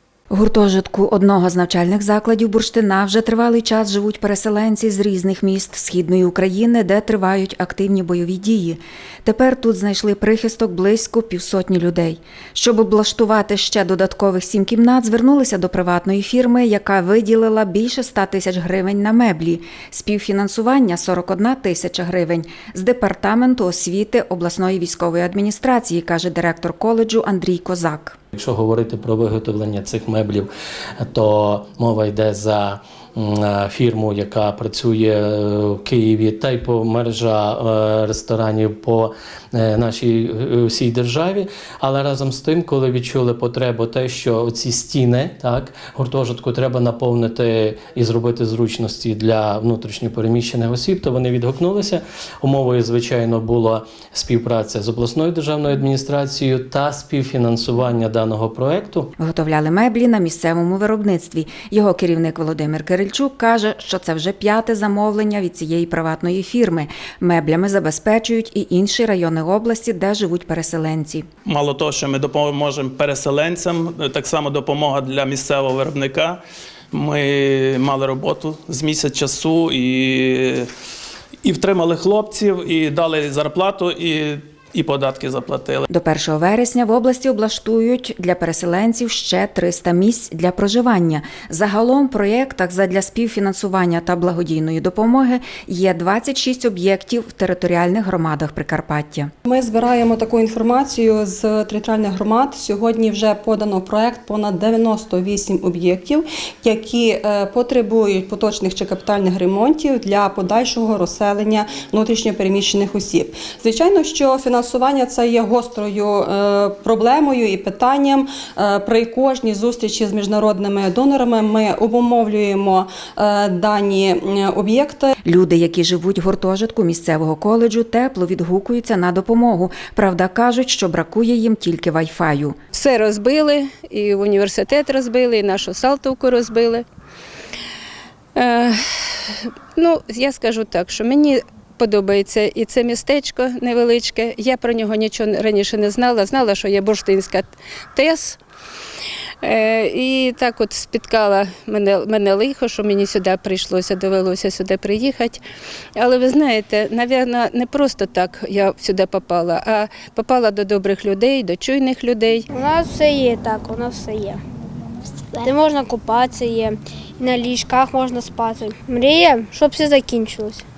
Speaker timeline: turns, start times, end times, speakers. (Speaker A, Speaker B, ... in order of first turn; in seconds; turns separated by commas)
Speaker A: 0.3-28.2, Speaker B: 28.3-59.1, Speaker A: 59.2-71.3, Speaker C: 71.5-76.4, Speaker C: 76.9-80.7, Speaker C: 81.4-85.8, Speaker A: 85.9-99.3, Speaker D: 99.5-125.1, Speaker A: 125.2-132.6, Speaker E: 132.7-136.8, Speaker E: 138.3-138.8, Speaker E: 139.8-148.4, Speaker E: 149.4-155.4, Speaker E: 156.0-162.5, Speaker F: 162.5-164.4, Speaker F: 165.4-170.6